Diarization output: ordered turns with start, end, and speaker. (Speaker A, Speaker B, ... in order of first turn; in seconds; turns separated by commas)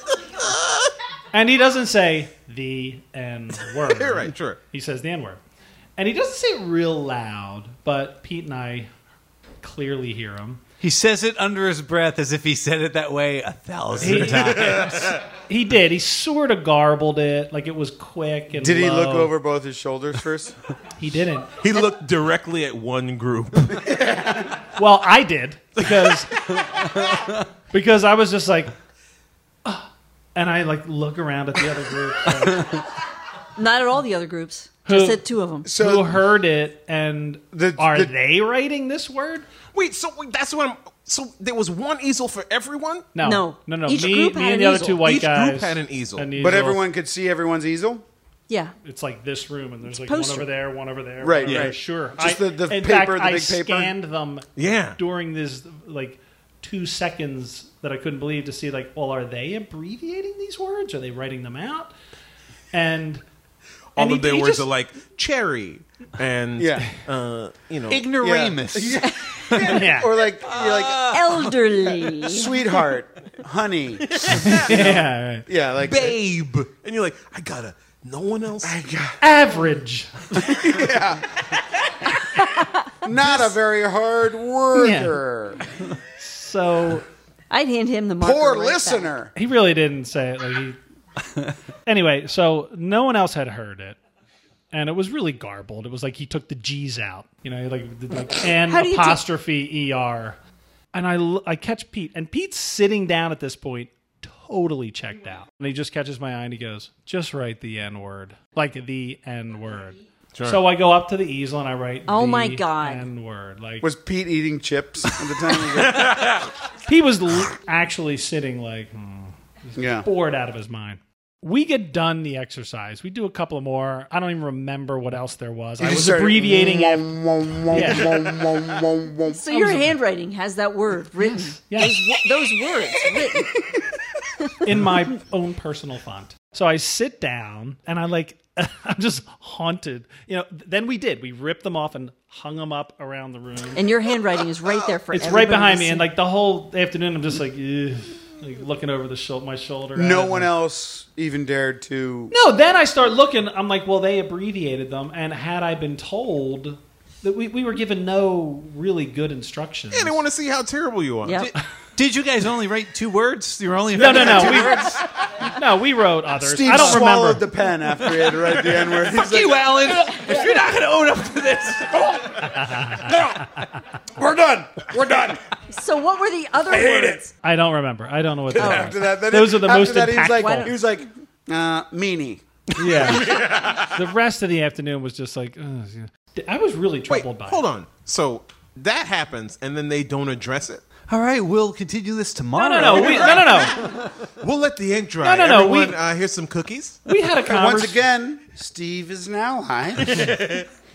Speaker A: 1.3-5.4, Speaker B: 3.9-4.6, Speaker A: 6.0-8.9, Speaker A: 9.6-10.6, Speaker C: 10.8-15.1, Speaker A: 14.0-19.3, Speaker B: 14.1-15.0, Speaker D: 18.5-20.6, Speaker A: 21.0-21.6, Speaker B: 21.6-24.0, Speaker D: 23.9-24.4, Speaker A: 24.8-26.3, Speaker B: 25.8-26.6, Speaker C: 26.7-27.4, Speaker A: 27.7-28.7, Speaker A: 29.6-32.8, Speaker E: 33.5-35.7, Speaker A: 34.9-39.5, Speaker D: 35.6-36.1, Speaker D: 37.5-38.1, Speaker B: 39.7-43.1, Speaker A: 43.1-46.8, Speaker E: 43.2-45.0, Speaker B: 44.9-46.3, Speaker D: 46.4-48.0, Speaker E: 48.5-48.7, Speaker A: 48.8-61.9, Speaker E: 50.0-50.5, Speaker D: 51.2-53.9, Speaker B: 54.5-55.0, Speaker A: 62.7-63.2, Speaker B: 64.0-68.0, Speaker A: 64.0-64.7, Speaker D: 66.6-66.9, Speaker C: 67.9-69.7, Speaker D: 68.1-71.1, Speaker E: 69.0-69.4, Speaker A: 69.6-70.1, Speaker C: 70.4-71.5, Speaker E: 71.1-72.7, Speaker D: 72.1-76.2, Speaker B: 74.1-74.9, Speaker A: 74.3-75.5, Speaker B: 75.8-78.8, Speaker D: 78.6-79.2, Speaker A: 79.2-80.6, Speaker D: 80.5-81.3, Speaker E: 82.3-82.8, Speaker D: 83.0-85.6, Speaker A: 84.7-85.2, Speaker A: 86.2-87.1, Speaker E: 87.5-89.1, Speaker D: 88.2-89.3, Speaker A: 89.3-90.8, Speaker A: 91.8-94.0, Speaker A: 94.7-100.4, Speaker E: 98.6-99.2, Speaker A: 100.9-113.9, Speaker B: 110.3-110.6, Speaker E: 112.1-113.0, Speaker D: 113.8-116.3, Speaker B: 115.7-116.5, Speaker A: 116.8-128.4, Speaker D: 119.8-120.0, Speaker D: 125.8-129.4, Speaker E: 129.3-133.8, Speaker A: 129.5-129.9, Speaker A: 131.2-132.0, Speaker A: 134.6-143.8, Speaker E: 143.7-146.1, Speaker A: 145.1-150.5, Speaker D: 149.9-152.3, Speaker A: 152.3-160.2, Speaker B: 159.9-161.5, Speaker E: 161.2-161.5, Speaker C: 161.4-165.0, Speaker A: 163.9-167.5, Speaker D: 164.1-165.0, Speaker D: 166.4-170.3, Speaker C: 169.1-172.1, Speaker B: 172.1-172.5, Speaker A: 172.4-173.8, Speaker B: 173.1-173.4, Speaker D: 174.1-175.4, Speaker E: 175.7-177.3, Speaker D: 176.7-177.2, Speaker A: 177.4-180.7, Speaker D: 178.5-182.4, Speaker E: 178.6-179.0, Speaker E: 180.3-180.9, Speaker A: 182.8-187.6, Speaker B: 183.2-184.0, Speaker B: 187.1-190.8, Speaker C: 191.0-194.3, Speaker A: 192.5-193.8, Speaker B: 193.2-193.4, Speaker B: 194.4-197.0, Speaker A: 195.2-196.0, Speaker A: 197.0-198.0, Speaker D: 197.3-200.4, Speaker B: 200.1-200.6